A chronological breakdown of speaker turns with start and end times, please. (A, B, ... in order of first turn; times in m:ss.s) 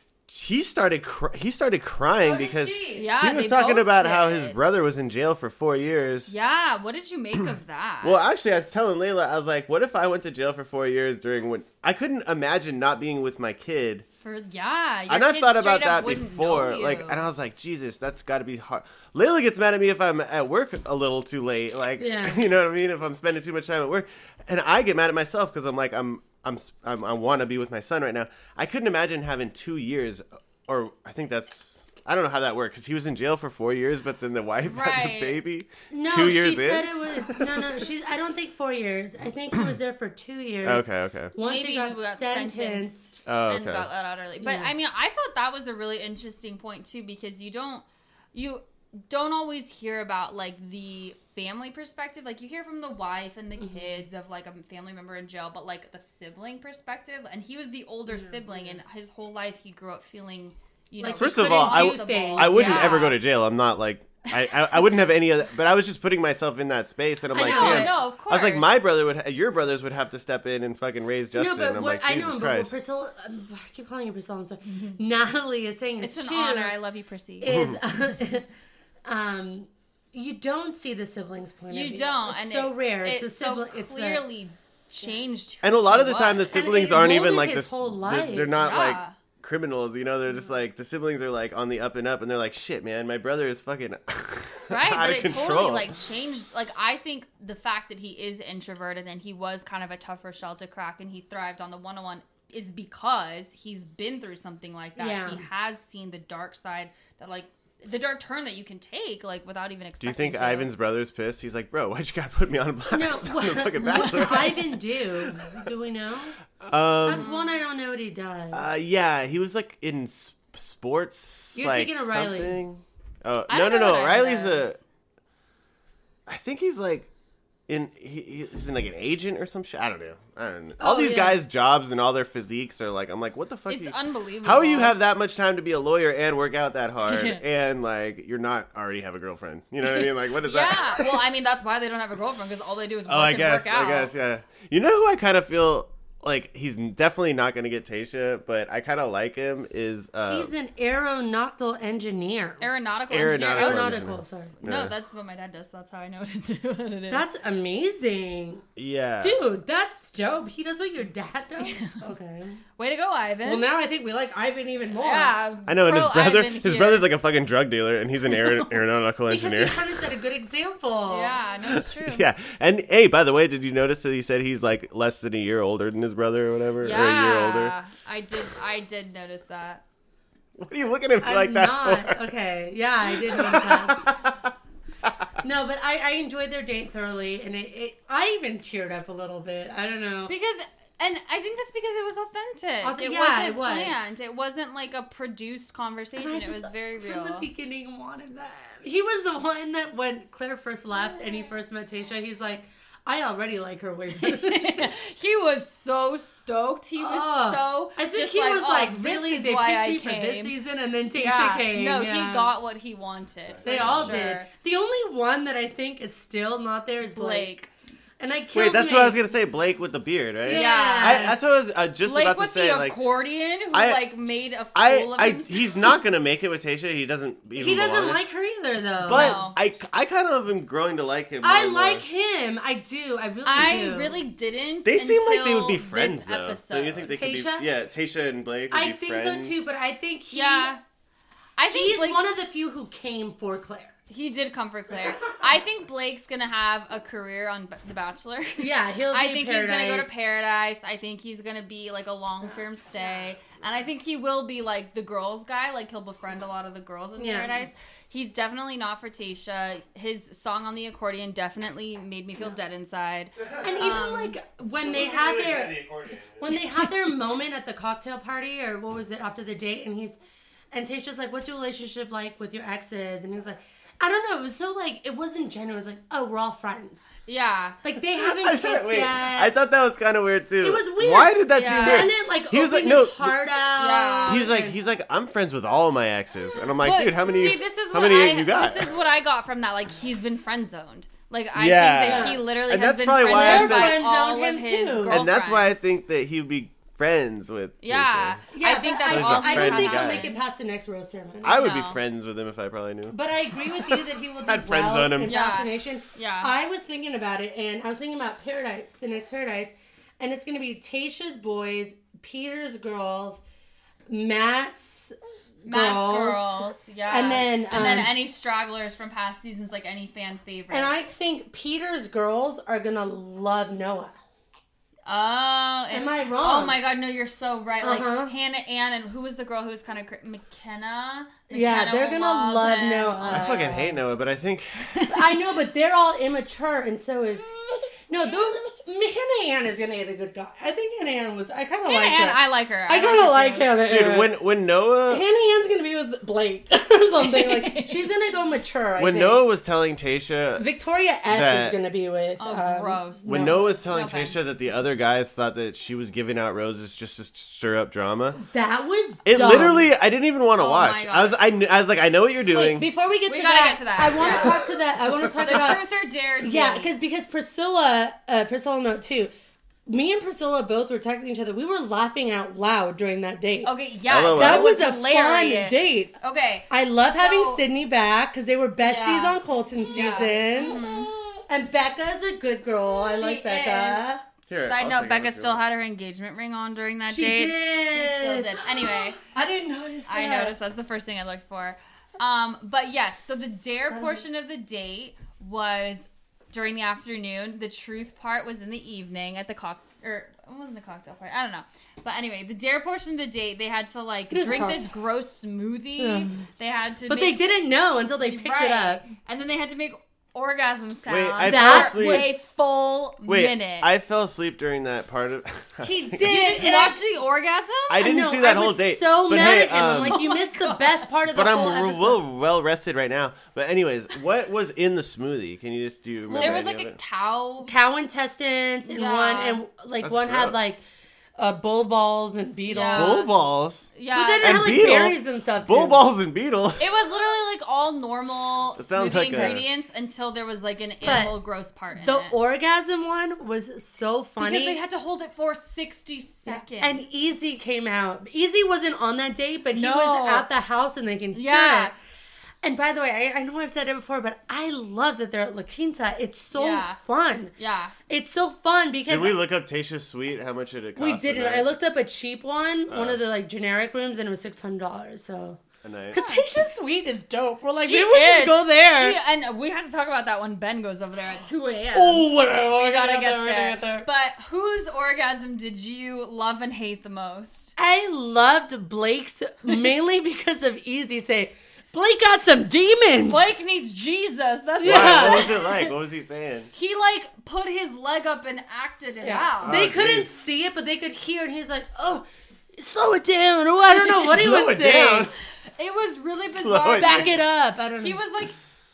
0:00.3-0:06.3 A
0:02.2-0:03.1 B
0:02.9-0:04.6 C
0:06.3-0:08.2 C
0:08.0-0:14.0 A
0:14.2-0:17.2 C
0:15.1-0:37.8 A
0:22.0-0:22.4 B
0:34.6-0:35.4 C
0:35.9-0:43.2 B
0:40.6-0:41.3 A
0:41.4-1:03.2 C
0:43.3-0:43.9 A
0:44.4-0:44.7 B
0:53.6-0:54.0 B
0:58.1-0:58.8 B
1:01.0-1:03.0 B
1:01.2-1:12.8 A
1:04.3-1:04.9 C
1:07.3-1:08.0 B
1:07.5-1:08.8 C
1:11.4-1:16.8 B
1:14.7-1:15.0 C
1:16.0-1:17.5 C
1:17.4-1:18.5 B
1:17.5-1:17.8 A
1:19.1-1:24.2 B
1:21.7-1:26.7 C
1:25.6-1:35.9 A
1:26.5-1:28.5 B
1:28.6-1:29.2 C
1:34.7-1:50.7 C
1:45.0-1:45.5 B
1:50.0-1:55.7 A
1:52.9-1:56.4 B
1:53.9-1:54.6 C
1:56.6-1:57.3 A
1:57.0-1:58.7 B
1:57.1-1:57.6 C
1:58.5-2:04.8 A
2:01.6-2:02.6 B
2:03.5-2:04.8 C
2:06.3-2:07.1 A
2:07.7-2:21.2 A
2:10.8-2:11.4 B
2:13.7-2:15.0 C
2:17.0-2:17.4 C
2:19.9-2:24.1 C
2:23.1-2:30.5 A
2:30.3-2:32.6 B
2:32.6-2:34.0 C
2:33.1-2:34.9 A
2:33.5-2:34.6 B
2:34.6-2:37.2 C
2:37.1-2:38.7 B
2:38.8-2:39.4 A
2:39.2-2:42.6 B
2:41.6-2:42.1 C
2:42.8-2:43.7 C
2:43.4-2:45.4 B
2:45.0-2:47.1 C
2:45.7-2:49.9 A
2:48.3-2:48.7 C
2:49.3-2:51.4 B
2:51.1-2:52.3 C
2:51.7-2:57.8 A
2:56.8-2:59.8 C
3:00.6-3:02.3 A
3:01.2-3:04.1 B
3:03.1-3:05.3 A
3:05.4-3:10.3 B
3:10.3-3:17.5 C
3:12.8-3:14.0 B
3:16.2-3:24.9 B
3:21.0-3:21.4 C
3:24.2-3:30.5 C
3:27.0-3:32.5 B
3:31.2-3:34.5 C
3:33.5-3:34.2 A
3:33.6-3:37.5 B
3:37.1-3:37.7 C
3:38.2-3:39.2 B
3:38.5-3:43.0 A
3:40.4-3:41.4 B
3:40.5-3:41.3 C
3:42.0-3:45.9 C
3:43.7-3:44.0 A
3:44.8-3:48.2 A
3:47.6-3:49.4 B
3:49.0-3:52.0 A
3:49.1-3:49.6 C
3:51.4-3:54.2 B
3:53.4-3:57.2 C
3:54.8-3:59.6 A
3:57.1-3:57.7 B
3:58.7-4:00.7 B
4:00.3-4:00.8 C
4:01.6-4:02.3 C
4:01.7-4:03.9 B
4:04.1-4:24.4 C
4:08.6-4:10.3 B
4:12.4-4:13.3 B
4:17.2-4:17.6 B
4:23.6-4:30.2 B
4:24.8-4:26.8 A
4:30.7-4:37.1 B
4:37.3-4:37.8 C
4:37.8-4:39.5 B
4:38.2-4:43.4 A
4:40.6-4:44.8 B
4:41.5-4:42.1 C
4:43.8-4:44.5 C
4:44.3-4:48.9 A
4:46.8-4:55.8 C
4:51.6-4:54.0 A
4:52.0-4:52.4 B
4:53.3-4:55.2 B
4:55.1-4:58.4 A
4:57.8-5:00.4 C
4:58.5-5:01.7 B
4:59.1-5:00.3 A
5:01.4-5:03.2 A
5:01.6-5:02.0 C
5:03.1-5:13.4 B
5:03.7-5:05.4 A
5:05.3-5:06.5 C
5:14.1-5:18.2 B
5:15.7-5:21.0 C
5:20.7-5:24.2 B
5:25.1-5:33.4 C
5:25.9-5:26.8 B
5:27.8-5:28.3 B
5:31.5-5:34.0 B
5:33.3-5:34.9 A
5:34.9-5:35.3 C
5:35.1-5:44.3 B
5:41.8-5:43.7 C
5:43.8-5:45.2 A
5:45.1-5:49.4 B
5:47.2-5:48.1 C
5:49.0-5:50.7 A
5:50.6-5:53.6 B
5:51.3-5:51.8 A
5:52.4-5:54.4 C
5:53.3-5:58.4 A
5:58.4-5:59.9 B
5:59.3-6:02.9 A
6:00.6-6:01.4 C
6:02.5-6:05.8 B
6:03.3-6:04.6 C
6:04.2-6:04.6 A
6:05.3-6:05.8 A
6:05.4-6:06.9 C
6:06.4-6:09.3 B
6:09.9-6:13.7 B
6:13.6-6:17.6 C
6:14.1-6:14.7 A
6:14.3-6:16.2 B
6:16.7-6:24.2 B
6:18.8-6:19.4 C
6:19.9-6:21.2 C
6:23.1-6:24.0 C
6:24.5-6:25.6 A
6:24.6-6:29.2 C
6:27.1-6:30.5 B
6:30.1-6:47.4 C
6:33.9-6:34.2 B
6:44.3-6:44.9 B
6:46.0-6:46.4 B
6:47.1-6:49.1 B
6:48.2-6:53.9 C
6:51.1-6:52.3 A
6:51.4-6:52.3 B
6:53.3-6:56.3 A
6:55.8-6:57.0 B
6:56.2-6:58.0 C
6:57.9-7:00.2 A
6:58.0-7:02.2 B
7:00.1-7:01.0 C
7:01.3-7:07.0 A
7:06.3-7:06.6 B
7:06.3-7:07.7 C
7:07.6-7:10.8 B
7:08.9-7:09.6 C
7:10.0-7:10.8 A
7:11.4-7:13.3 B
7:12.7-7:13.3 C
7:12.9-7:13.9 A
7:14.0-7:14.7 C
7:14.1-7:16.0 B
7:14.4-7:16.9 A
7:16.8-7:22.3 C
7:18.8-7:19.6 A
7:21.0-7:21.4 B
7:21.9-7:24.8 B
7:24.4-7:27.0 C
7:26.5-7:32.0 B
7:29.7-7:30.5 C
7:31.3-7:31.9 C
7:32.6-7:37.5 B
7:36.6-7:37.0 C
7:37.6-7:38.0 C
7:38.1-7:39.4 B
7:39.1-7:41.7 A
7:41.0-7:45.6 B
7:42.9-7:43.2 A
7:45.8-7:46.2 A
7:46.1-7:49.2 B
7:46.1-7:46.5 C
7:47.8-7:57.7 C
7:51.9-7:54.1 B
7:57.8-8:03.5 B
7:59.7-7:59.9 C
8:03.2-8:05.9 C
8:04.8-8:05.6 B
8:04.8-8:06.7 A
8:06.7-8:09.9 C
8:09.2-8:15.3 B
8:09.6-8:10.3 A
8:14.0-8:15.3 A
8:15.8-8:17.4 C
8:16.4-8:17.4 A
8:17.0-8:18.2 B
8:18.0-8:18.6 C